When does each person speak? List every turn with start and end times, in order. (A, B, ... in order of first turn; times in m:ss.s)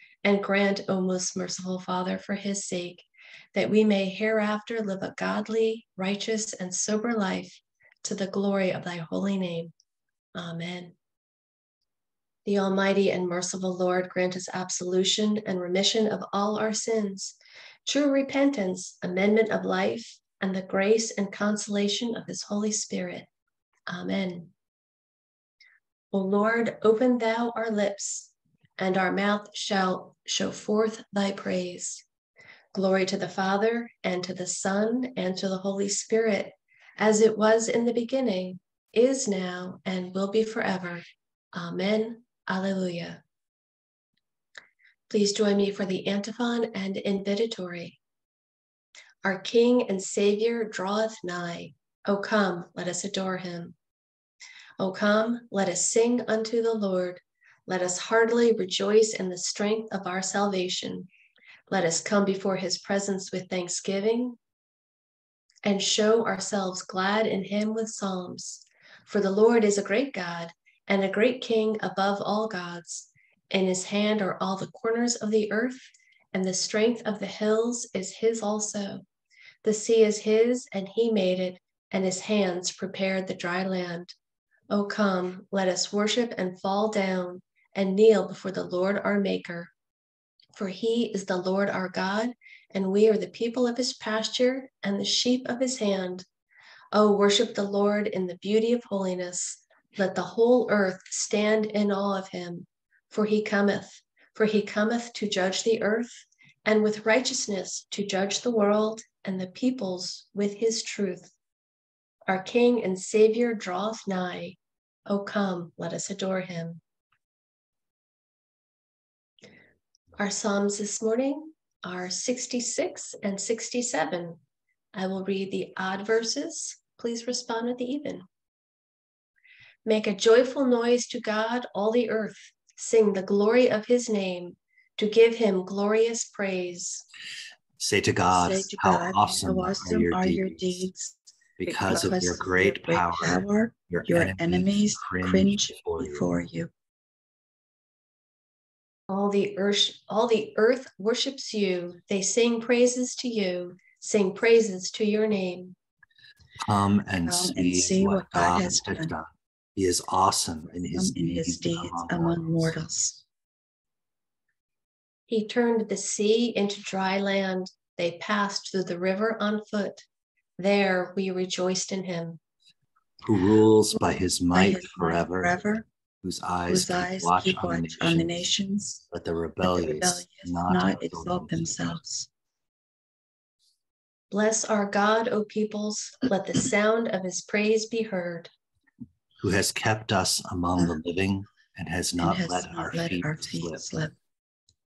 0:00.2-0:09.7 A
0:10.3-0:10.9 A
0:12.4-0:23.3 A
0:23.9-0:24.5 A
0:26.1-0:32.0 A
0:32.7-0:41.0 A
0:41.5-0:43.2 A
0:45.1-0:48.0 A
0:49.2-0:53.7 A
0:54.8-1:01.1 A
1:01.7-1:04.4 A
1:05.6-1:19.0 A
1:19.6-1:24.1 A
1:24.7-1:29.7 A
1:30.6-1:36.2 A
1:36.9-1:51.3 A
1:52.3-1:56.8 A
2:00.2-2:04.4 A
2:04.9-2:08.2 A
2:09.8-2:17.0 A
2:17.8-2:20.8 B
2:18.3-2:21.1 C
2:21.6-2:26.3 B
2:21.6-2:26.7 C
2:29.1-2:35.7 A
2:36.6-2:42.7 B
2:37.2-2:39.1 C
2:40.9-2:43.2 C
2:45.3-2:50.0 A
2:50.6-2:52.4 A
2:53.2-2:55.5 B
2:54.5-2:55.8 C
2:56.2-2:58.4 B
2:56.7-2:59.0 C
2:59.1-3:01.8 B
2:59.6-3:02.3 C
3:04.3-3:08.5 A
3:09.4-3:13.8 B
3:12.2-3:14.1 C